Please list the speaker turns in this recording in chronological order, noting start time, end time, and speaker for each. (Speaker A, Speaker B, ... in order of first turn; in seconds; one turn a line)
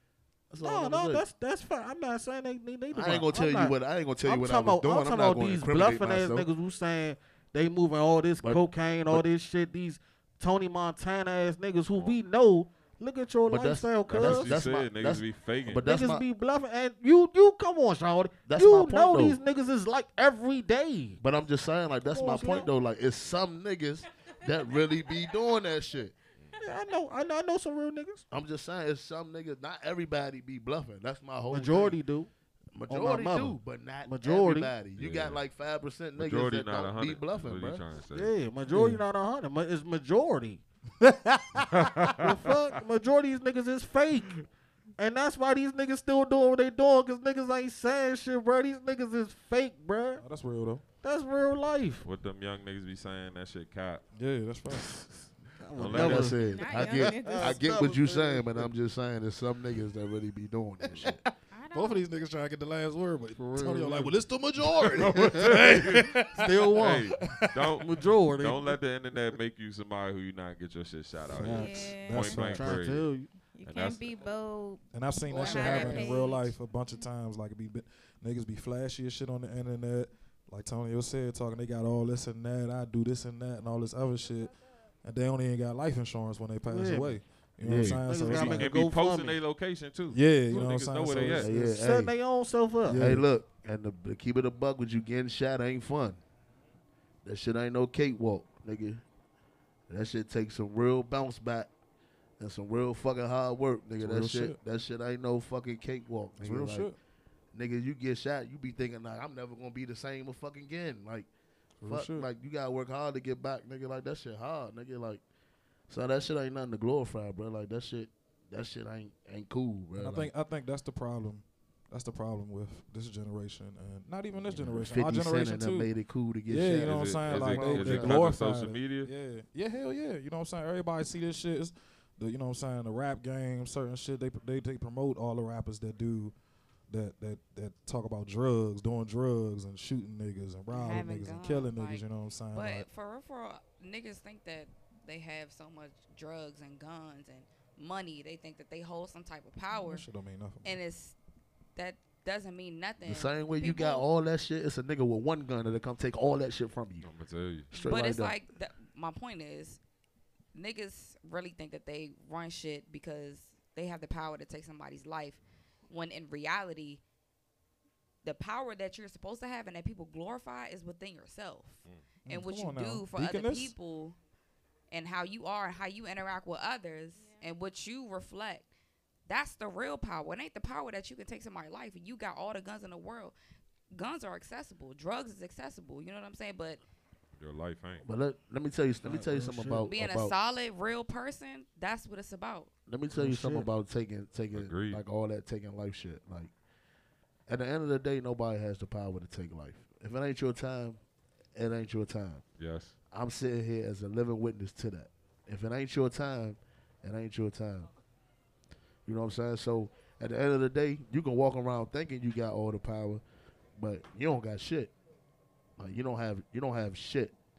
Speaker A: 0.5-1.2
Speaker B: 0.6-14.6
Speaker A: 2.9-6.5
Speaker A: 8.4-9.2
Speaker C: 11.9-12.2
Speaker A: 13.4-16.2
Speaker C: 14.1-15.9
Speaker B: 15.8-21.2
Speaker A: 18.5-19.4
Speaker A: 21.2-26.1
Speaker B: 22.1-22.7
Speaker B: 26.6-28.2
Speaker A: 28.3-32.0
Speaker B: 31.5-32.3
Speaker A: 32.7-37.8
Speaker B: 32.9-34.8
Speaker C: 34.9-35.4
Speaker C: 36.1-38.3
Speaker B: 38.1-40.6
Speaker D: 38.7-39.0
Speaker D: 41.0-41.9
Speaker C: 41.6-42.8
Speaker B: 42.2-44.4
Speaker B: 45.0-50.2
Speaker D: 50.2-50.8
Speaker B: 51.0-52.0
Speaker C: 52.0-54.0
Speaker D: 54.1-54.9
Speaker B: 55.6-58.7
Speaker C: 55.7-56.4
Speaker A: 55.9-61.2
Speaker E: 56.4-57.6
Speaker D: 60.8-66.5
Speaker E: 61.5-62.0
Speaker B: 63.3-64.2
Speaker C: 64.6-73.1
Speaker B: 66.3-67.1
Speaker D: 67.1-67.7
Speaker B: 67.8-68.8
Speaker B: 71.3-73.3
Speaker D: 71.3-72.8
Speaker E: 71.6-72.2
Speaker E: 73.4-76.5
Speaker C: 73.6-74.1
Speaker D: 74.9-84.5
Speaker B: 75.3-76.3
Speaker A: 75.3-75.6
Speaker D: 85.0-88.6
Speaker B: 86.7-87.2
Speaker A: 87.6-88.0
Speaker B: 87.8-89.4
Speaker C: 88.2-91.5
Speaker D: 90.1-91.5
Speaker B: 91.1-93.2
Speaker A: 91.4-92.1
Speaker D: 92.9-93.2
Speaker A: 92.9-96.2
Speaker A: 97.2-99.0
Speaker A: 99.9-101.7
Speaker A: 102.4-106.9
Speaker D: 104.0-104.6
Speaker D: 106.4-107.0
Speaker A: 107.5-111.3
Speaker D: 111.8-112.3
Speaker A: 111.8-115.2
Speaker A: 115.9-120.3
Speaker D: 120.0-125.9
Speaker A: 124.5-128.2
Speaker D: 126.5-136.3
Speaker C: 126.7-129.1
Speaker D: 136.9-142.9
Speaker F: 140.7-150.1
Speaker D: 149.7-150.8
Speaker F: 150.6-151.2
Speaker F: 151.8-154.0
Speaker A: 153.0-157.1
Speaker C: 157.0-157.7
Speaker A: 157.7-158.4
Speaker F: 157.8-159.8
Speaker F: 160.5-167.0
Speaker F: 168.2-174.2
Speaker D: 172.2-173.7
Speaker F: 174.9-178.7
Speaker F: 179.3-183.3
Speaker F: 183.9-186.8
Speaker C: 187.4-188.0
Speaker A: 188.0-190.3
Speaker B: 189.0-189.9
Speaker F: 189.8-192.7
Speaker A: 192.9-196.5
Speaker B: 193.1-193.7
Speaker C: 194.5-195.0
Speaker A: 197.5-201.0
Speaker A: 201.5-202.4
Speaker C: 202.6-202.9
Speaker A: 203.1-207.9
Speaker A: 209.1-213.2
Speaker A: 213.8-214.9
Speaker A: 215.8-217.3